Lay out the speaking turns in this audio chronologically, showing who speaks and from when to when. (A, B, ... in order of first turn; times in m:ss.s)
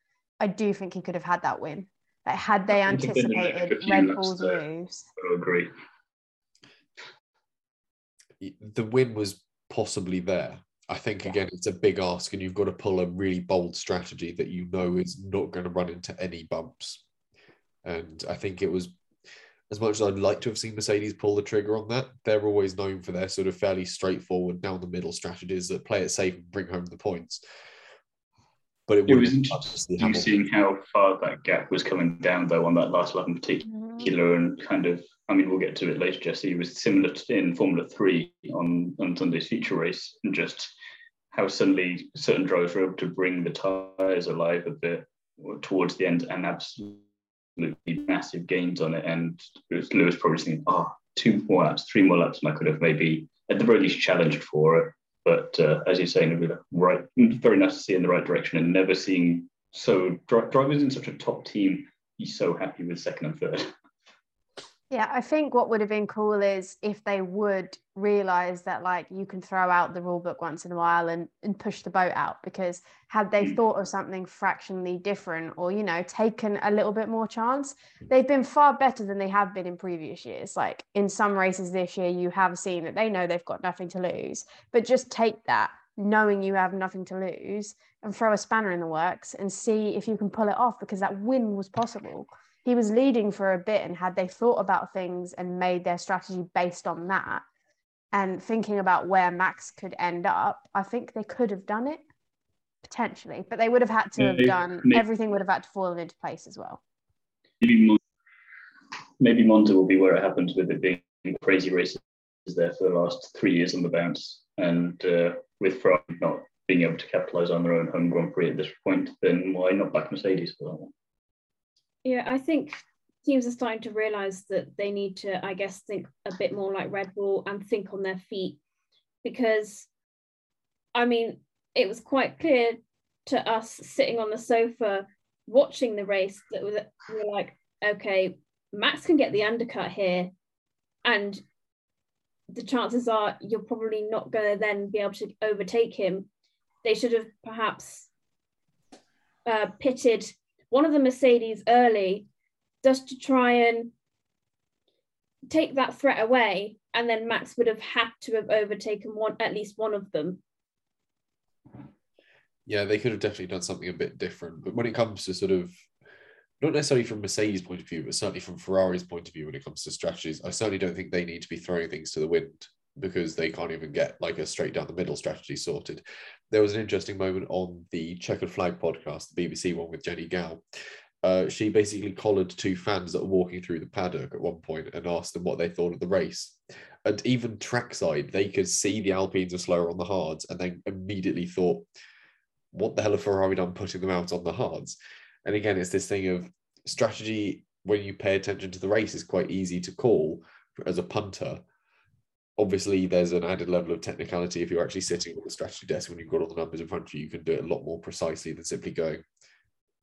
0:00.4-0:05.1 A
0:02.7-0:04.6 B
0:05.2-0:05.7 B
0:08.4-0:17.0 C
0:17.8-0:19.0 C
0:19.7-0:27.4 C
0:28.9-0:30.4 C
0:29.1-0:40.7 B
0:33.7-0:34.1 A
0:41.3-0:47.0 B
0:47.6-1:03.7 B
1:04.9-1:37.4 A
1:38.1-1:42.0 A
1:42.9-1:46.8 A
1:44.2-1:45.0 B
1:47.6-1:48.0 B
1:49.2-2:00.9 B
2:02.0-2:08.6 D
2:09.2-2:09.9 D
2:11.0-2:20.3 D
2:21.0-2:21.4 D
2:22.5-2:26.3 D
2:26.8-2:28.1 D
2:29.5-2:32.3 D
2:32.8-2:33.9 D
2:35.5-2:40.4 D
2:42.7-2:45.7 C
2:46.6-3:00.6 C
3:01.2-3:11.9 C
3:12.7-3:21.6 C
3:22.6-3:29.2 C